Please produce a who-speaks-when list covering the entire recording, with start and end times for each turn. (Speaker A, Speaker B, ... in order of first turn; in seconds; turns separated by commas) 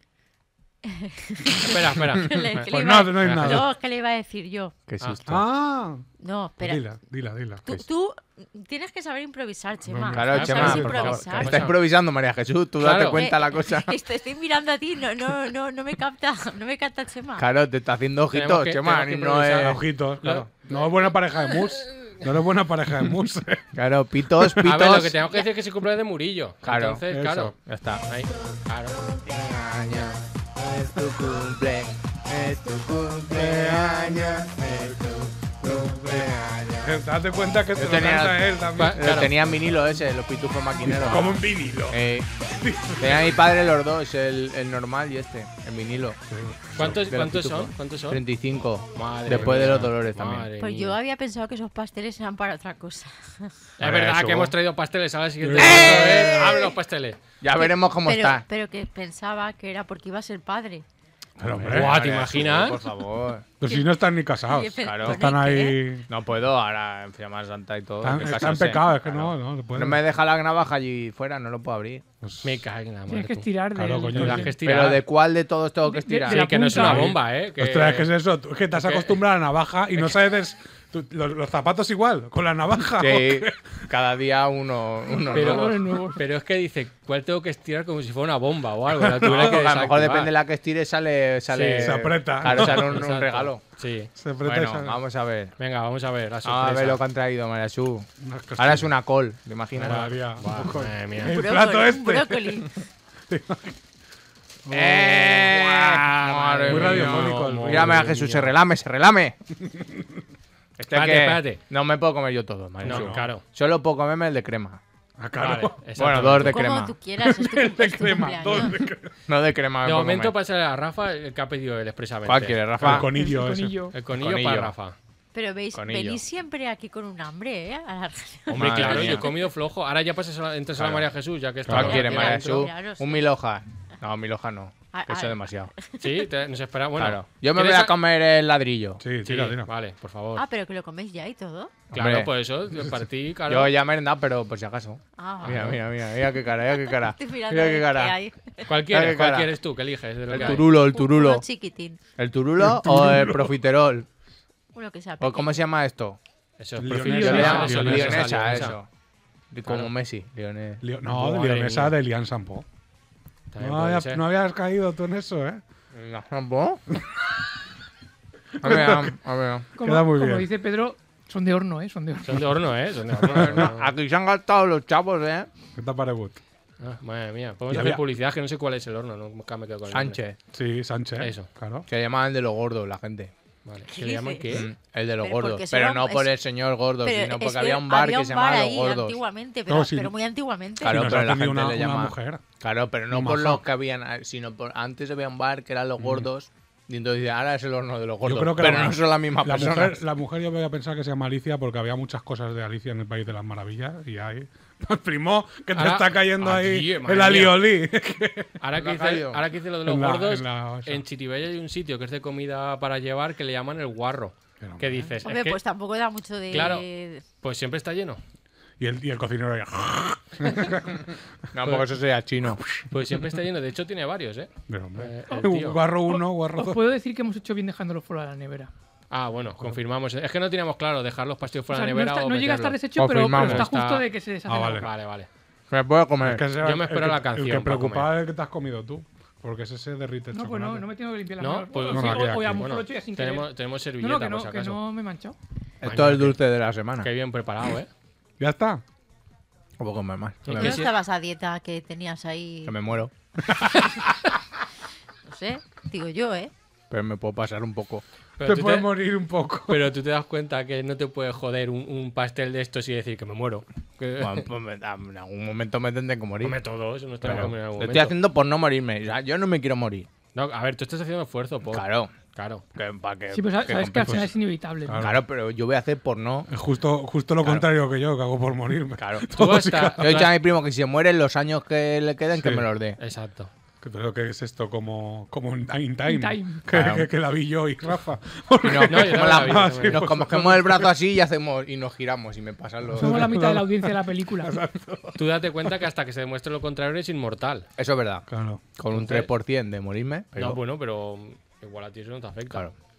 Speaker A: 0.8-4.8, Speaker B: 1.6-3.7, Speaker C: 2.7-3.7, Speaker D: 4.9-5.4, Speaker C: 5.3-6.1, Speaker A: 6.2-6.8, Speaker C: 6.6-7.8, Speaker A: 7.6-11.6, Speaker C: 9.8-11.4, Speaker D: 10.1-14.0, Speaker B: 10.3-11.8, Speaker B: 12.8-13.2, Speaker A: 13.1-17.5, Speaker D: 17.4-19.8, Speaker B: 18.3-20.5, Speaker C: 19.6-23.8, Speaker D: 23.8-25.2, Speaker C: 24.4-24.7, Speaker B: 24.6-29.2, Speaker D: 26.6-27.0, Speaker C: 27.1-27.6, Speaker D: 27.6-28.0, Speaker D: 29.2-37.0, Speaker B: 29.7-30.1, Speaker C: 33.3-39.3, Speaker D: 37.8-41.4, Speaker B: 38.8-39.3, Speaker C: 40.8-43.5, Speaker D: 41.9-42.3, Speaker D: 43.0-46.2, Speaker C: 46.3-47.1, Speaker B: 46.8-48.2, Speaker D: 46.8-50.5, Speaker B: 48.9-51.0, Speaker A: 50.6-53.7, Speaker B: 53.8-57.2, Speaker C: 53.8-54.6, Speaker C: 55.4-56.6, Speaker D: 55.6-56.6, Speaker D: 57.4-58.4, Speaker A: 57.5-60.9, Speaker C: 61.4-62.3, Speaker D: 61.4-63.5, Speaker B: 61.7-62.8, Speaker C: 63.6-66.1, Speaker A: 63.6-65.9, Speaker D: 64.8-65.3, Speaker D: 66.1-72.0, Speaker C: 68.0-70.0, Speaker C: 72.2-72.6, Speaker B: 72.4-73.5, Speaker E: 73.1-74.6, Speaker C: 73.7-74.5, Speaker B: 74.1-75.0, Speaker D: 74.6-76.8, Speaker E: 75.9-77.2, Speaker B: 76.2-78.1, Speaker C: 76.8-83.9, Speaker B: 78.7-79.2, Speaker D: 83.0-85.8, Speaker B: 85.3-90.3, Speaker E: 85.3-86.2, Speaker C: 89.1-89.6, Speaker D: 89.2-93.6, Speaker B: 91.5-94.1, Speaker C: 91.8-93.1, Speaker C: 94.2-95.0, Speaker D: 94.4-95.5, Speaker B: 95.6-97.0, Speaker D: 96.4-100.1, Speaker C: 98.2-98.9, Speaker B: 99.8-101.4, Speaker C: 99.8-102.7, Speaker A: 101.2-102.8, Speaker C: 103.3-103.8, Speaker C: 104.7-105.8, Speaker D: 104.7-109.3, Speaker B: 105.7-108.5, Speaker C: 106.7-108.1, Speaker C: 109.6-110.1, Speaker D: 110.8-114.8, Speaker B: 110.9-111.6, Speaker C: 112.8-113.3, Speaker B: 112.8-113.4, Speaker C: 115.2-115.8, Speaker B: 115.4-116.7, Speaker D: 116.0-117.0, Speaker A: 116.4-118.8, Speaker C: 117.2-119.1, Speaker D: 119.3-120.3, Speaker B: 119.8-123.0, Speaker D: 122.2-123.1, Speaker C: 122.8-123.9, Speaker E: 123.1-124.0, Speaker B: 123.9-125.0, Speaker D: 124.1-124.7, Speaker A: 125.3-129.4, Speaker D: 125.7-126.2, Speaker B: 128.5-132.7, Speaker D: 128.5-129.3, Speaker D: 130.8-131.1, Speaker C: 131.7-132.0, Speaker D: 131.7-135.7, Speaker A: 131.8-133.3, Speaker A: 134.9-136.3, Speaker B: 136.0-138.0, Speaker D: 137.0-139.0, Speaker C: 139.0-139.7, Speaker B: 139.2-140.4, Speaker A: 140.3-141.8, Speaker D: 141.9-142.3, Speaker B: 141.9-143.7, Speaker D: 143.5-148.2, Speaker A: 145.2-145.8, Speaker A: 146.5-148.7, Speaker B: 148.7-150.7, Speaker D: 148.9-149.6, Speaker D: 150.3-151.4, Speaker A: 150.3-152.0, Speaker D: 152.2-154.1, Speaker C: 152.6-153.6, Speaker A: 154.8-155.6, Speaker D: 155.2-156.2, Speaker B: 156.6-158.8, Speaker C: 156.8-158.7, Speaker E: 157.1-157.9, Speaker D: 157.1-158.9, Speaker D: 159.5-160.8, Speaker C: 160.8-162.7, Speaker B: 161.1-162.0, Speaker B: 163.5-164.2, Speaker C: 163.6-165.6, Speaker D: 165.9-166.8, Speaker C: 167.0-167.2, Speaker C: 168.6-169.2, Speaker D: 168.6-169.7, Speaker E: 169.8-172.6, Speaker C: 169.8-170.5, Speaker B: 172.3-173.9, Speaker D: 173.3-175.5, Speaker C: 173.3-173.7, Speaker C: 175.8-176.4, Speaker B: 176.8-180.2, Speaker C: 177.7-178.0, Speaker D: 179.9-180.4, Speaker C: 180.5-181.9, Speaker B: 181.2-181.5, Speaker D: 181.9-183.3, Speaker B: 183.7-184.7, Speaker A: 183.9-184.6, Speaker D: 184.5-189.2, Speaker A: 185.2-186.4, Speaker A: 187.0-191.2, Speaker C: 189.7-190.1, Speaker C: 190.8-192.5, Speaker D: 190.8-200.0, Speaker C: 193.1-193.6, Speaker C: 196.0-196.3, Speaker C: 198.2-208.5, Speaker B: 205.8-207.7, Speaker B: 208.6-215.6, Speaker D: 208.8-209.4, Speaker C: 209.8-211.0, Speaker C: 214.6-215.1, Speaker A: 215.2-217.2, Speaker B: 216.5-216.9, Speaker B: 217.4-218.2, Speaker C: 218.8-221.1, Speaker D: 221.5-222.6, Speaker C: 222.6-222.9, Speaker B: 222.9-225.8, Speaker C: 224.7-226.8, Speaker E: 226.1-228.7, Speaker B: 229.1-232.8, Speaker E: 231.7-234.9, Speaker C: 233.0-233.7, Speaker D: 233.1-233.6, Speaker B: 233.3-234.1, Speaker C: 234.4-234.9, Speaker B: 234.7-235.3, Speaker D: 235.7-236.5, Speaker C: 236.2-240.9, Speaker B: 236.6-238.1, Speaker E: 240.3-245.4, Speaker B: 241.4-244.8, Speaker C: 241.9-242.6, Speaker D: 245.8-247.1, Speaker B: 245.8-246.4, Speaker B: 247.0-247.9, Speaker C: 248.4-248.8, Speaker D: 249.8-250.9, Speaker B: 250.4-250.9, Speaker A: 250.5-252.9, Speaker D: 252.7-253.1, Speaker C: 253.6-254.0, Speaker A: 255.2-256.5, Speaker D: 256.9-258.0, Speaker B: 258.4-259.0, Speaker C: 258.4-259.9, Speaker B: 259.7-264.5, Speaker D: 264.2-266.6, Speaker B: 266.4-268.2, Speaker D: 267.2-270.1, Speaker B: 270.3-272.6, Speaker D: 271.7-272.1, Speaker D: 272.8-274.3, Speaker E: 273.3-275.1, Speaker C: 274.0-274.3, Speaker C: 274.9-275.2, Speaker D: 275.0-276.5, Speaker C: 276.5-280.3, Speaker D: 279.0-279.3, Speaker B: 279.3-280.3, Speaker D: 280.0-283.0, Speaker C: 282.4-282.7, Speaker B: 283.0-283.5, Speaker C: 283.8-290.9, Speaker E: 286.1-286.6, Speaker D: 286.7-287.1, Speaker D: 288.6-293.4, Speaker B: 288.9-290.1, Speaker E: 292.9-294.5, Speaker C: 293.0-295.2, Speaker B: 295.2-297.7, Speaker D: 297.8-300.6, Speaker C: 298.3-298.6, Speaker B: 298.9-299.3, Speaker B: 300.4-302.7